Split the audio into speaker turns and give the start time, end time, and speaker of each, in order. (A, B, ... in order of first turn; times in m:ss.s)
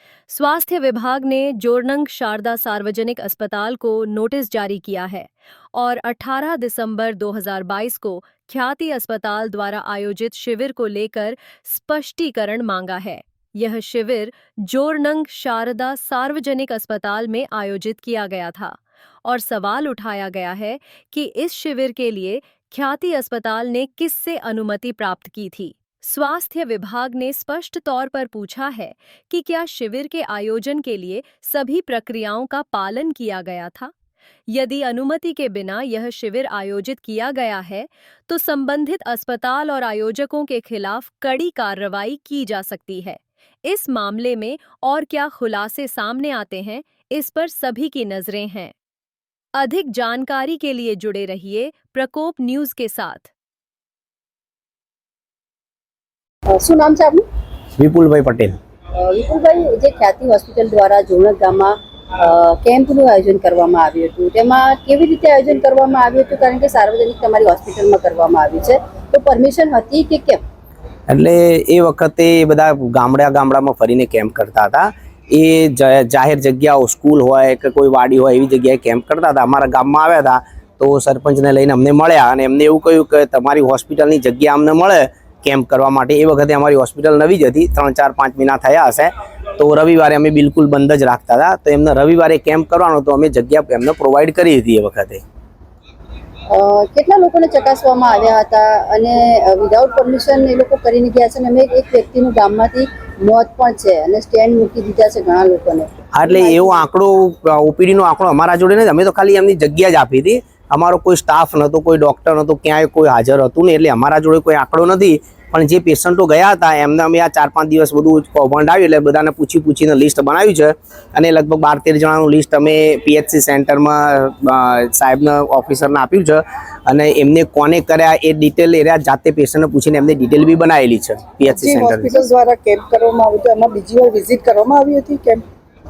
0:00.3-0:33.9 A
0:34.5-0:48.7 A
0:49.6-0:53.3 A
0:56.5-0:57.2 B
0:57.8-0:58.6 C
0:59.0-1:10.4 B
1:11.1-1:35.2 C
1:36.5-1:46.8 B
1:46.2-2:12.2 C
2:11.6-2:15.4 D